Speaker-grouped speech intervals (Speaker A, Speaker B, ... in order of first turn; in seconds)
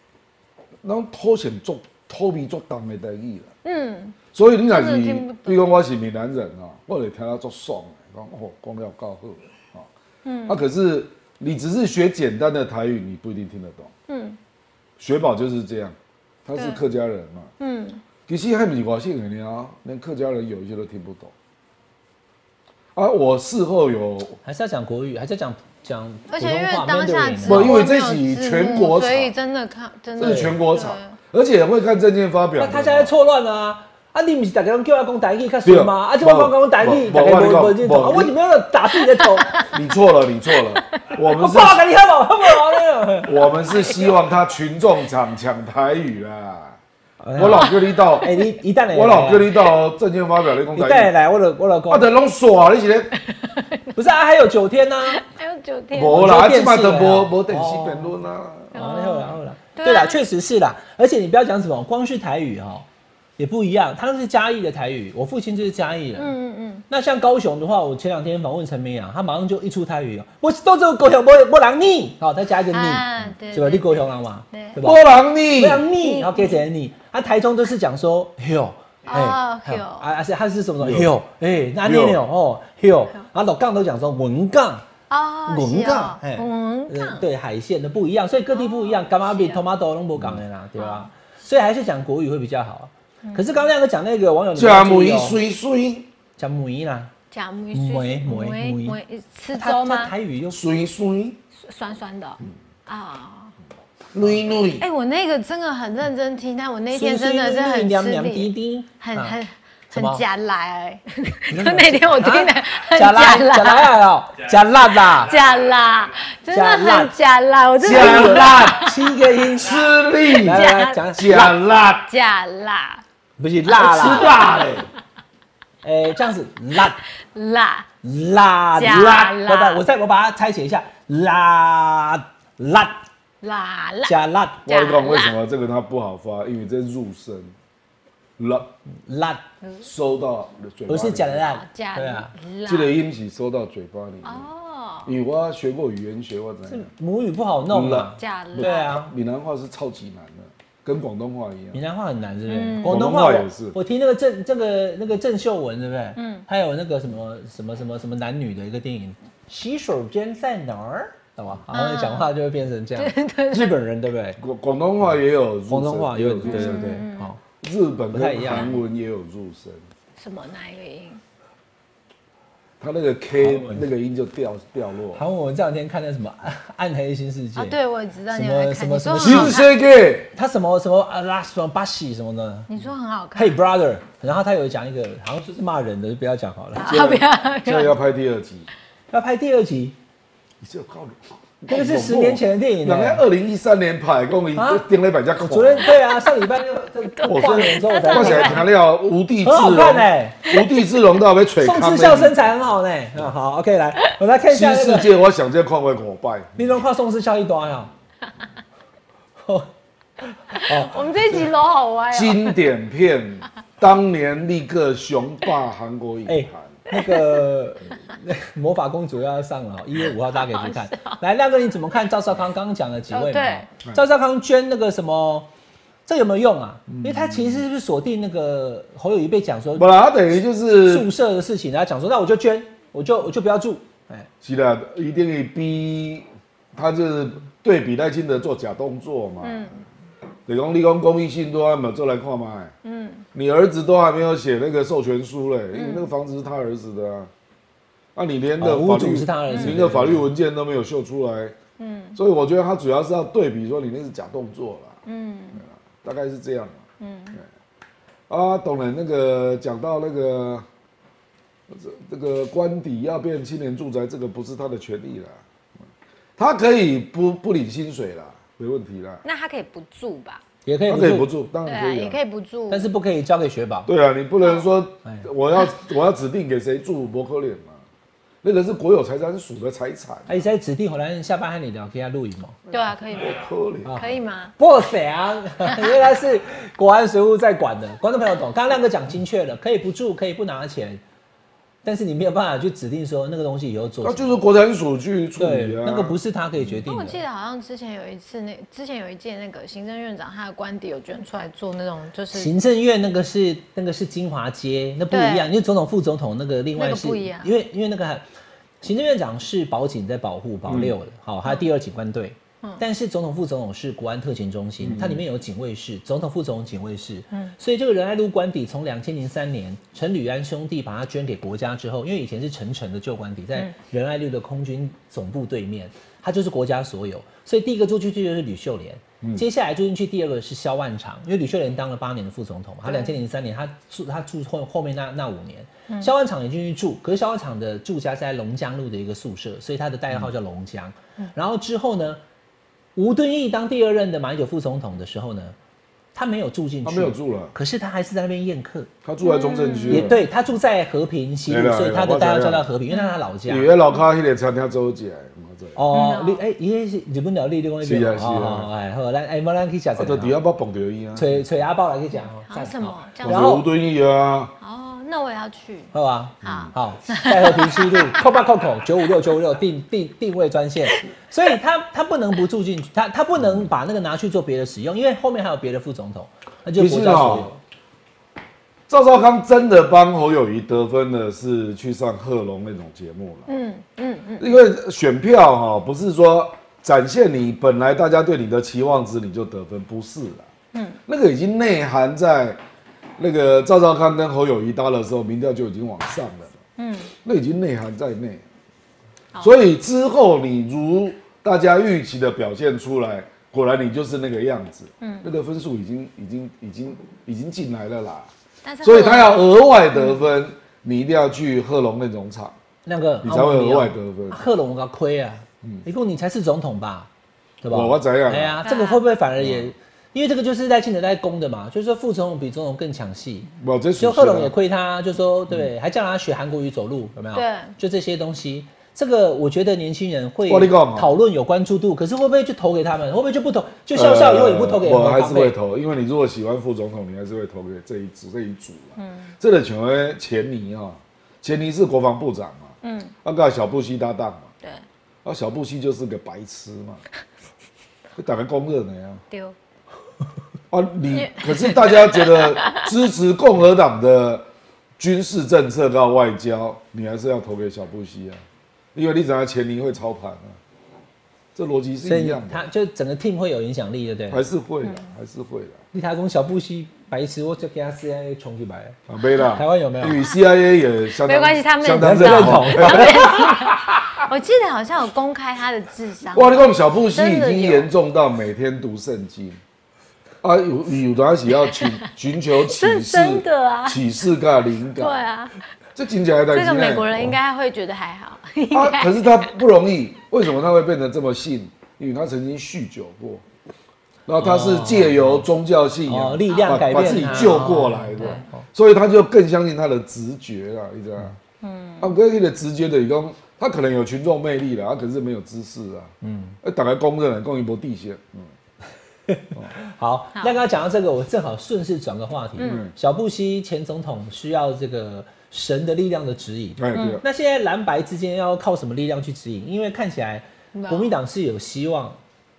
Speaker A: 0.8-3.5, 4.3-9.9, 10.4-13.9, 15.0-15.9, 16.4-17.5, 18.3-21.3, 22.9-24.4, 27.4-29.3, 30.2-33.1, 35.6-38.3, 39.7-41.8, 43.2-46.8, 47.4-48.3, 48.9-51.1, 51.9-53.1, 55.9-58.8, 74.8-75.8, 80.8-81.1, 81.8-82.2, 94.5-96.1, 100.5-101.4, 104.1-104.8, 117.8-118.9, 119.5-122.1, 123.7-124.9, 134.7-137.5, 138.4-138.7, 139.8-141.4, 142.7-144.5, 145.1-146.9, 147.7-151.8, 152.8-153.8, 164.4-167.0, 167.6-169.8, 172.8-175.2, 179.2-180.3, 186.8-188.7, 190.6-195.9, 197.2-202.4, 204.5-206.8, 212.1-216.8, 226.9-227.6, 229.8-231.1, 234.4-239.8, 240.5-242.7, 243.3-247.3, 248.1-251.5, 252.1-255.0, 256.0-256.8, 258.3-260.6, 261.7-265.4, 266.4-269.2, 270.9-272.2, 273.9-277.8, 278.4-280.4, 282.7-284.0, 294.0-296.8, 310.6-310.9, 314.8-315.2, 346.8-347.5, 349.0-350.2, 351.5-352.7, 353.5-355.8, 357.8-358.7, 360.0-361.4, 363.2-364.5, 366.4-366.7, 376.7-377.5, 378.9-383.5, 384.4-390.4, 391.1-392.6, 393.2-396.5, 397.2-398.4, 399.4-408.3, 408.8-412.6, 413.2-414.4, 417.7-418.6, 419.4-419.7, 423.6-424.5, 430.5-431.1, 433.9-444.5, 445.2-447.0, 448.2-449.2, 450.7-454.5, 455.0-458.4, 458.9-460.6, 461.5-462.6, 464.3-465.8, 469.1-474.2, 476.3-479.6, 480.4-485.2, 485.9-487.4, 488.7-493.4, 494.3-501.4, 502.0-508.5, 512.6-512.9, 516.8-517.2
Speaker B: 3.6-4.2, 4.7-5.8, 10.2-10.6, 14.1-14.4, 16.5-16.8, 17.6-18.0, 26.3-31.2, 39.2-39.7, 40.8-41.0, 43.5-44.2, 47.5-48.5, 53.3-53.9, 55.1-56.3, 58.7-60.2, 66.2-66.8, 72.7-74.8, 76.0-76.6, 79.0-80.1, 85.1-87.2, 88.5-89.6, 90.8-91.1, 93.2-93.7, 97.3-100.1, 101.6-103.5, 104.8-113.9, 115.2-119.0, 120.3-121.4, 122.0-123.0, 123.8-124.8, 127.2-127.9, 128.8-129.8, 133.4-135.4, 141.4-142.9, 144.2-145.1, 148.2-149.0, 152.5-153.0, 156.2-156.4, 161.7-162.3, 163.0-163.8, 166.4-167.3, 168.5-168.8, 170.2-171.2, 177.6-179.7, 182.7-183.6, 186.8-188.0, 197.2-198.7, 200.5-200.8, 210.6-212.7, 216.9-217.4, 220.0-221.2, 223.1-223.7, 239.4-239.8, 242.8-243.2, 245.7-246.1, 249.5-249.8, 251.8-252.2, 255.1-255.6, 257.0-257.4, 269.2-270.4, 271.6-272.9, 282.7-284.5, 296.9-302.5, 305.1-305.5, 306.8-307.5, 332.8-333.1, 349.2-350.2, 352.9-353.2, 355.9-356.4, 362.5-363.6, 364.6-368.2, 383.5-384.6, 390.7-391.0, 396.8-397.1, 405.0-405.2, 408.6-410.1, 418.6-419.0, 427.3-427.7, 439.0-439.3, 442.8-443.1, 451.1-452.9, 471.2-477.9, 481.6-482.1, 482.6-484.1, 485.0-485.6, 486.5-489.5, 496.5-497.7, 498.2-498.4, 501.6-502.1, 510.3-510.6, 512.6-512.8, 516.9-517.2, 520.7-521.1
Speaker C: 24.4-27.8, 30.2-30.6, 32.6-39.6, 41.2-43.4, 47.2-49.5, 50.7-52.1, 53.9-55.2, 56.0-58.1, 58.7-62.9, 63.4-66.3, 66.9-84.8, 85.5-95.4, 96.4-97.1, 97.7-99.0, 99.5-100.6, 106.9-109.4, 109.9-110.2, 111.5-115.3, 116.5-117.1, 117.9-119.8, 120.4-121.6, 123.4-124.3, 125.8-127.0, 128.0-133.0, 134.1-134.7, 139.1-139.4, 140.9-142.3, 146.7-149.1, 151.7-164.4, 165.7-167.4, 168.1-168.8, 173.4-173.9, 175.1-177.8, 178.3-179.6, 180.3-182.7, 183.3-187.0, 189.1-189.9, 191.7-193.2, 194.6-194.8, 195.4-198.6, 199.4-200.5, 201.6-205.1, 206.6-207.9, 209.4-209.7, 210.2-211.4, 216.3-225.5, 226.1-229.9, 230.8-234.3, 248.6-250.3, 270.6-271.3, 272.7-273.9, 280.3-282.6, 283.8-291.0, 291.8-294.4, 295.4-297.2, 302.3-308.2, 308.8-342.2, 342.9-345.6, 346.1-348.9, 349.9-353.7, 355.8-360.3, 361.1-363.6, 365.9-377.6, 412.9-417.1, 417.6-435.5, 462.0-464.4, 465.9-469.0, 469.5-470.2, 472.0-473.6, 494.4-495.4, 496.1-498.6, 506.2-506.6, 509.3-522.2